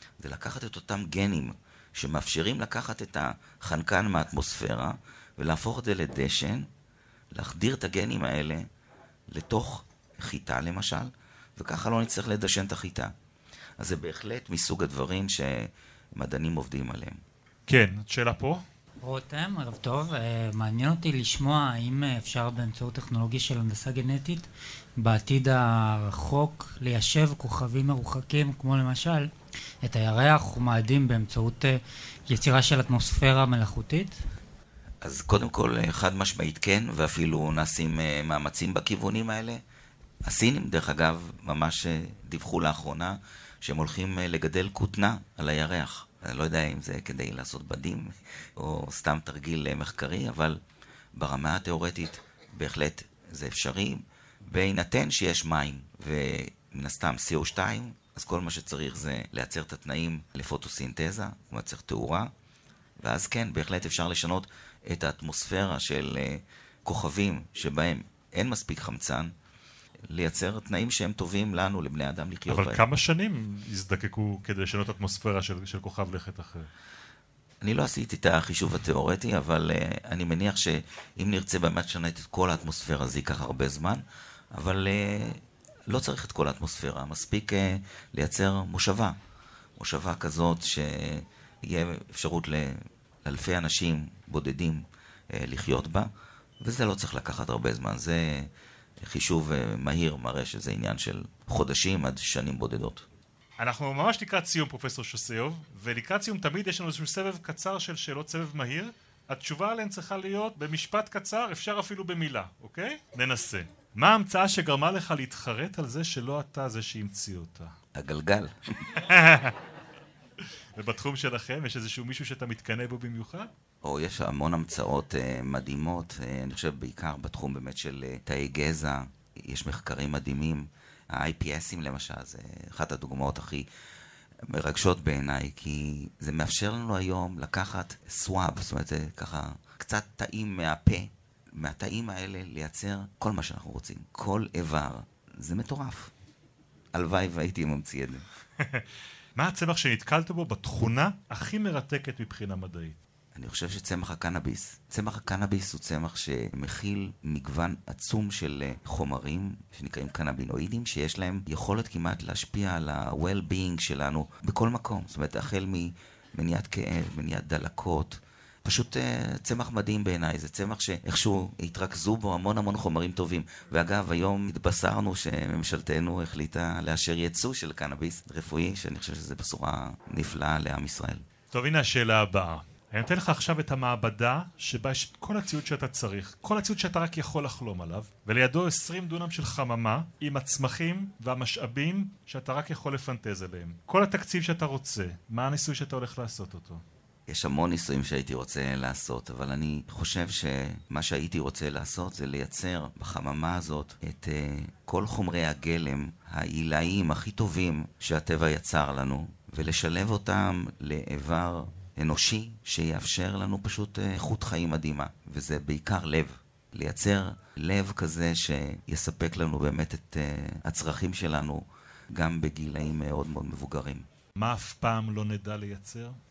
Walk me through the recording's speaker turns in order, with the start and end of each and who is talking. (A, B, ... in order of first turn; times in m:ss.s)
0:00.2-0:06.7 A
0:07.3-0:08.6 A
0:09.3-0:13.1 A
0:13.8-0:17.2 A
0:17.7-0:18.6 B
0:19.0-0:24.4 C
0:25.0-0:29.3 C
0:29.8-0:34.2 C
0:35.0-0:39.6 A
0:40.2-0:50.6 A
0:51.1-1:02.3 A
1:03.0-1:09.3 A
1:10.1-1:12.8 A
1:12.5-1:16.7 B
1:17.6-1:29.2 A
1:29.8-1:36.1 A
1:36.6-1:38.5 A
1:39.0-1:43.0 A
1:43.6-1:57.7 B
1:57.9-1:59.0 A
1:58.9-1:59.6 B
2:00.8-2:03.5 B
2:03.8-2:13.6 A
2:14.4-2:26.1 A
2:26.9-2:28.2 A
2:28.6-2:28.8 B
2:29.4-2:33.0 B
2:33.3-3:01.2 A
3:01.5-3:16.8 B
3:17.3-3:44.0 A
3:44.4-3:46.2 B